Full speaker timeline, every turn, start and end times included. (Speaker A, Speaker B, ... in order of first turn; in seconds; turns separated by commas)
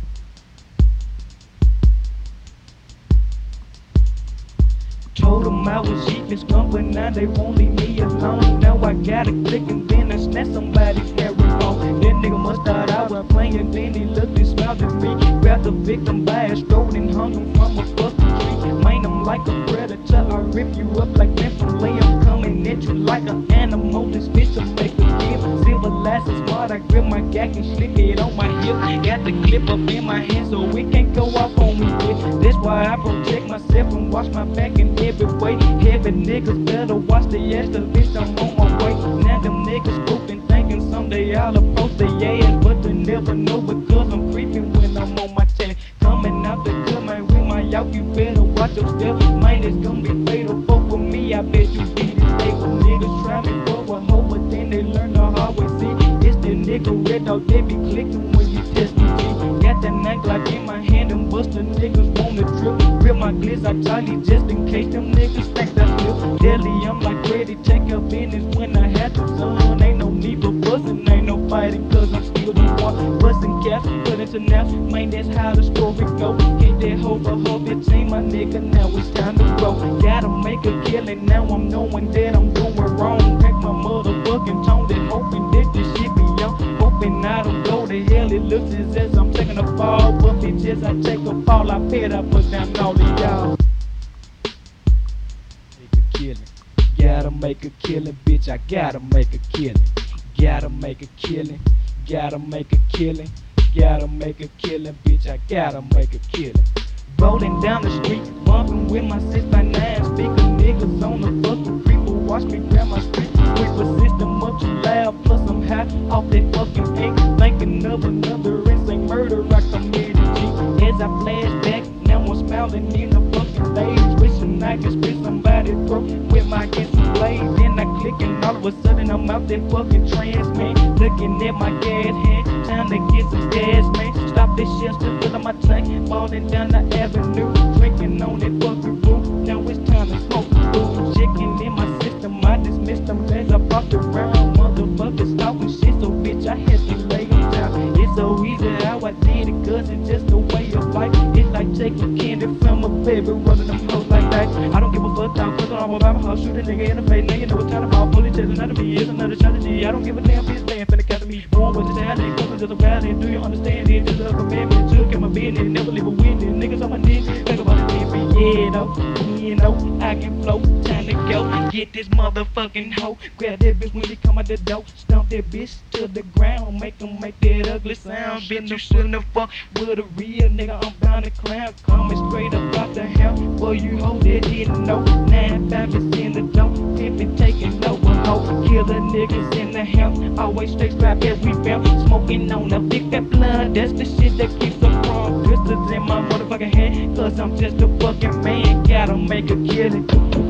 Speaker A: 5.1-93.5, Speaker A: 95.8-200.1